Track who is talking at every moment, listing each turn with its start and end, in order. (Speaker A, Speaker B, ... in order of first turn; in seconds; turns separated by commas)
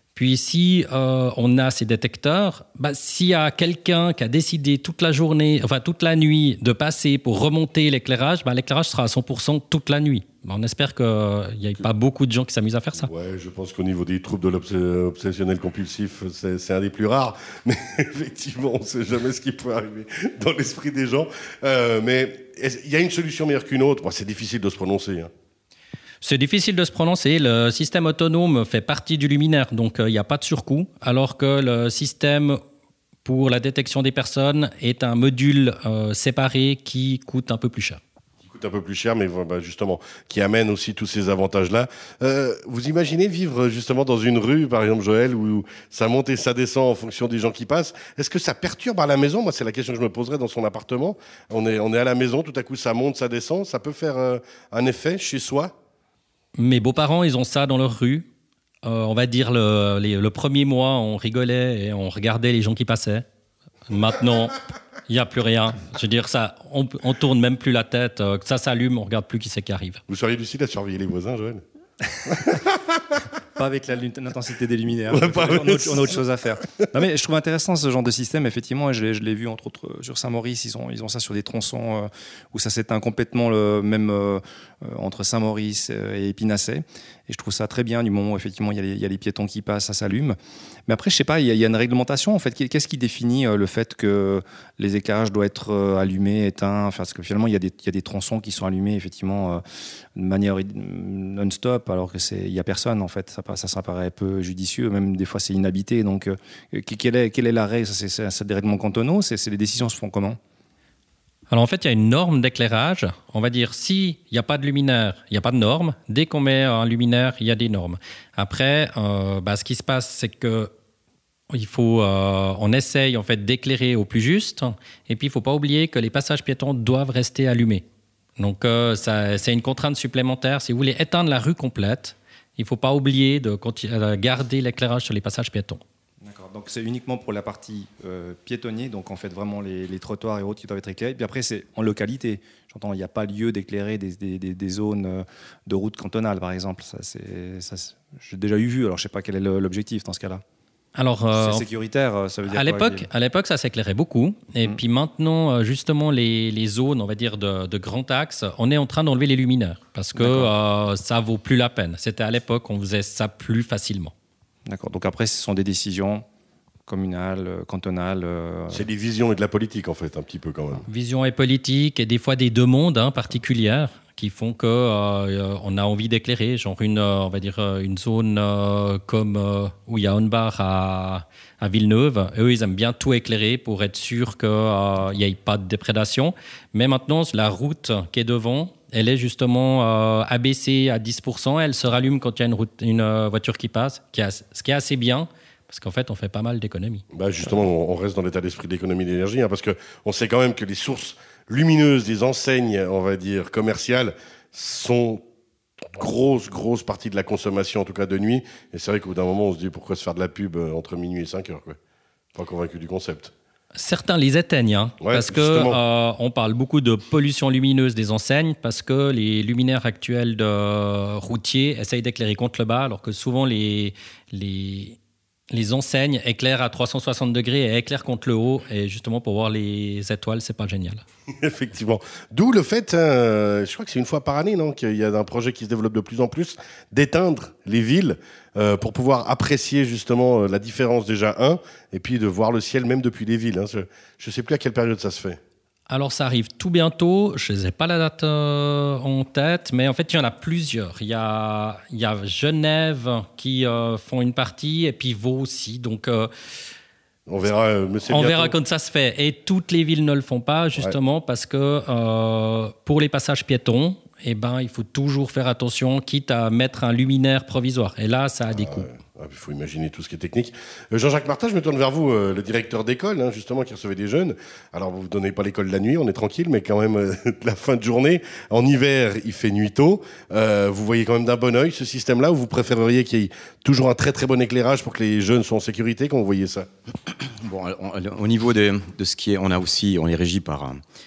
Speaker A: 0.1-13.1, Speaker B: 12.9-25.3, Speaker A: 26.2-32.6, Speaker A: 33.2-38.0, Speaker B: 38.4-55.7, Speaker A: 56.5-58.3, Speaker A: 58.8-63.2, Speaker A: 63.9-64.6, Speaker A: 65.1-70.0, Speaker B: 70.1-71.6, Speaker B: 72.3-72.7, Speaker C: 73.5-99.6, Speaker B: 75.1-76.2, Speaker C: 100.2-110.4, Speaker A: 111.5-120.7, Speaker A: 121.5-127.8, Speaker A: 128.4-135.8, Speaker C: 136.2-150.4, Speaker A: 150.9-151.7, Speaker C: 151.3-153.1, Speaker A: 152.4-164.1, Speaker C: 160.1-160.5, Speaker C: 164.7-166.2, Speaker C: 166.9-168.9, Speaker B: 168.7-170.8, Speaker A: 170.9-197.0, Speaker B: 197.1-205.2, Speaker B: 206.0-211.8, Speaker B: 212.3-213.3, Speaker A: 213.7-225.0, Speaker B: 215.0-215.8, Speaker A: 225.5-231.0, Speaker B: 231.4-245.4, Speaker A: 245.9-256.3, Speaker B: 257.3-258.5, Speaker A: 258.1-268.9, Speaker B: 268.5-286.7, Speaker D: 287.4-290.8